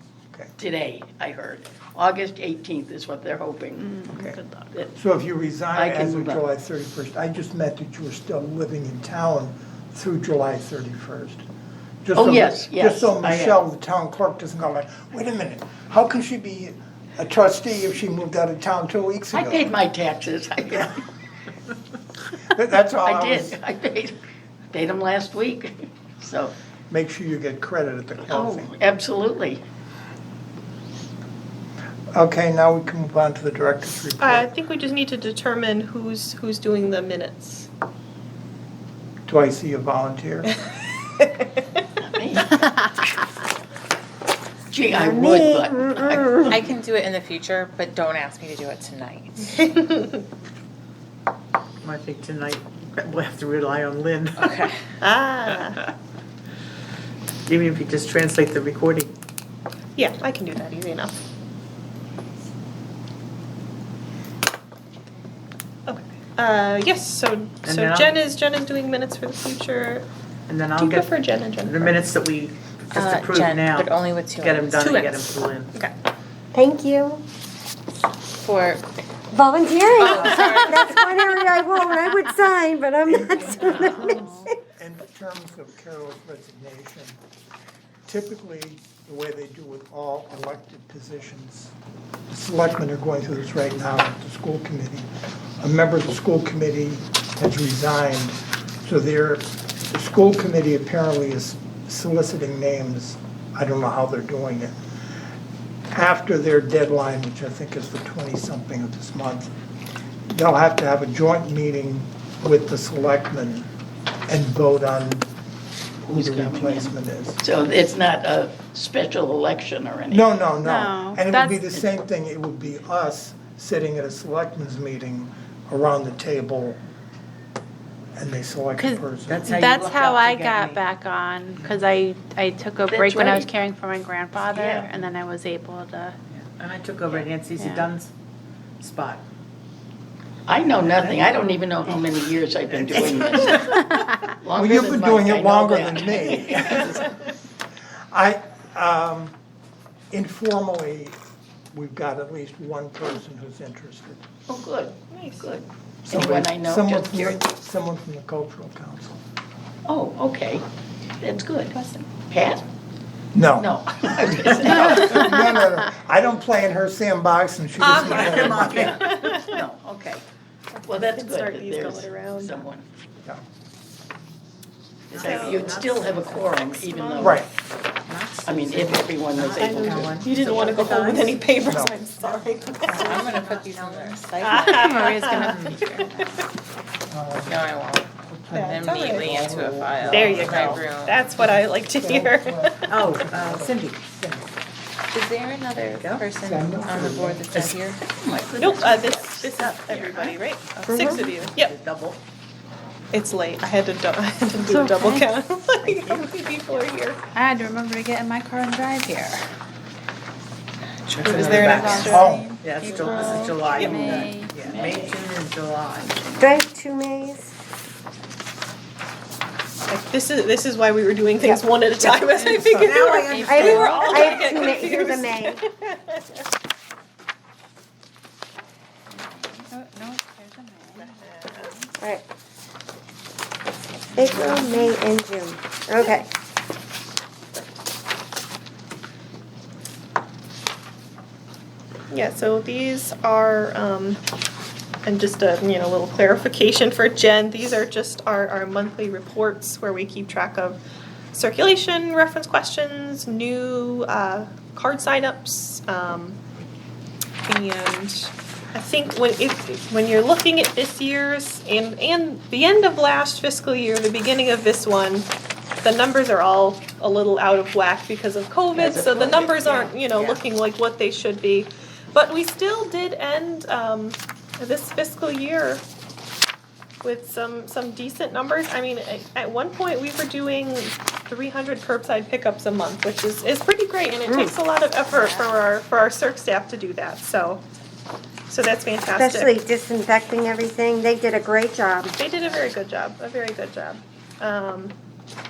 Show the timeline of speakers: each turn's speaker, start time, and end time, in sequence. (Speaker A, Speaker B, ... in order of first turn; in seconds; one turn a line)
Speaker A: 0.6-4.1
Speaker B: 3.8-4.7
Speaker C: 4.1-4.4
Speaker C: 4.9-11.4
Speaker A: 5.8-6.4
Speaker C: 12.0-19.7
Speaker A: 12.2-13.6
Speaker A: 19.3-21.0
Speaker C: 22.5-23.6
Speaker A: 23.0-24.2
Speaker A: 24.7-26.6
Speaker C: 26.9-28.7
Speaker A: 28.3-29.6
Speaker C: 32.1-34.5
Speaker D: 34.2-37.7
Speaker C: 39.3-40.5
Speaker A: 42.0-43.0
Speaker A: 44.7-46.6
Speaker E: 44.9-46.5
Speaker F: 46.5-49.8
Speaker G: 51.8-54.6
Speaker F: 54.4-54.8
Speaker D: 55.0-55.8
Speaker G: 57.5-59.1
Speaker D: 60.0-61.2
Speaker D: 65.9-70.1
Speaker G: 67.6-68.2
Speaker G: 70.5-71.1
Speaker D: 70.8-72.0
Speaker G: 71.6-75.7
Speaker F: 72.9-74.8
Speaker D: 74.7-75.9
Speaker E: 76.5-77.2
Speaker F: 78.3-78.8
Speaker E: 79.3-84.5
Speaker F: 80.0-81.3
Speaker C: 83.1-84.1
Speaker B: 83.8-84.5
Speaker C: 84.8-87.2
Speaker C: 88.1-91.8
Speaker C: 92.3-95.1
Speaker C: 95.6-104.7
Speaker C: 105.9-109.5
Speaker C: 110.3-113.7
Speaker C: 114.3-115.3
Speaker A: 116.1-120.2
Speaker C: 116.1-117.4
Speaker C: 120.1-126.8
Speaker B: 120.6-121.6
Speaker C: 128.2-129.5
Speaker B: 128.8-136.2
Speaker G: 129.3-130.8
Speaker A: 132.9-133.5
Speaker A: 134.4-134.9
Speaker G: 136.3-138.1
Speaker B: 137.6-137.9
Speaker G: 138.8-139.2
Speaker A: 140.5-146.9
Speaker G: 140.9-141.3
Speaker C: 142.9-143.6
Speaker C: 144.5-147.2
Speaker C: 148.1-149.3
Speaker C: 150.1-151.2
Speaker C: 151.7-154.2
Speaker A: 154.5-157.5
Speaker D: 155.1-155.5
Speaker C: 156.1-159.2
Speaker A: 159.9-160.7
Speaker A: 161.2-162.6
Speaker C: 163.3-169.0
Speaker A: 163.6-165.4
Speaker D: 167.8-169.6
Speaker G: 167.9-169.3
Speaker A: 168.7-170.2
Speaker D: 170.7-172.7
Speaker A: 170.8-172.8
Speaker G: 175.1-176.9
Speaker D: 175.1-177.4
Speaker A: 175.1-177.4
Speaker C: 177.2-177.5
Speaker G: 178.1-181.4
Speaker A: 178.5-180.2
Speaker D: 179.6-183.5
Speaker C: 181.7-181.9
Speaker G: 182.2-184.7
Speaker F: 182.8-185.1
Speaker D: 184.4-186.0
Speaker B: 184.6-186.3
Speaker G: 185.3-185.8
Speaker C: 187.1-187.7
Speaker F: 187.4-191.3
Speaker C: 188.3-190.9
Speaker D: 188.5-189.3
Speaker G: 189.0-189.4
Speaker D: 190.1-192.9
Speaker G: 190.2-190.5
Speaker C: 191.4-194.5
Speaker G: 192.9-194.0
Speaker F: 195.1-198.0
Speaker G: 196.0-196.3
Speaker C: 196.4-197.5
Speaker G: 197.5-197.8
Speaker A: 198.2-200.4
Speaker D: 198.6-201.7
Speaker F: 199.9-200.3
Speaker F: 200.8-201.2
Speaker E: 200.9-201.2
Speaker G: 201.5-202.2
Speaker D: 203.1-207.2
Speaker B: 204.7-205.3
Speaker G: 205.8-206.3
Speaker B: 207.3-209.4
Speaker G: 211.1-216.2
Speaker D: 211.2-214.3
Speaker B: 211.2-214.5
Speaker C: 212.1-212.6
Speaker A: 214.6-215.3
Speaker E: 216.4-217.5
Speaker D: 219.9-226.4
Speaker G: 222.6-224.6
Speaker B: 223.2-224.1
Speaker E: 223.3-225.6
Speaker B: 229.1-231.9
Speaker D: 231.0-231.8
Speaker E: 232.0-232.2
Speaker E: 234.2-236.3
Speaker B: 234.2-234.9
Speaker D: 242.1-244.2
Speaker D: 245.1-250.8
Speaker D: 251.3-256.4
Speaker D: 257.4-265.3
Speaker D: 265.8-275.8
Speaker A: 268.8-269.8
Speaker F: 269.6-270.4
Speaker D: 277.0-287.6
Speaker E: 284.3-284.5
Speaker F: 285.1-285.6
Speaker D: 288.5-289.5
Speaker E: 289.1-292.2
Speaker D: 292.2-295.0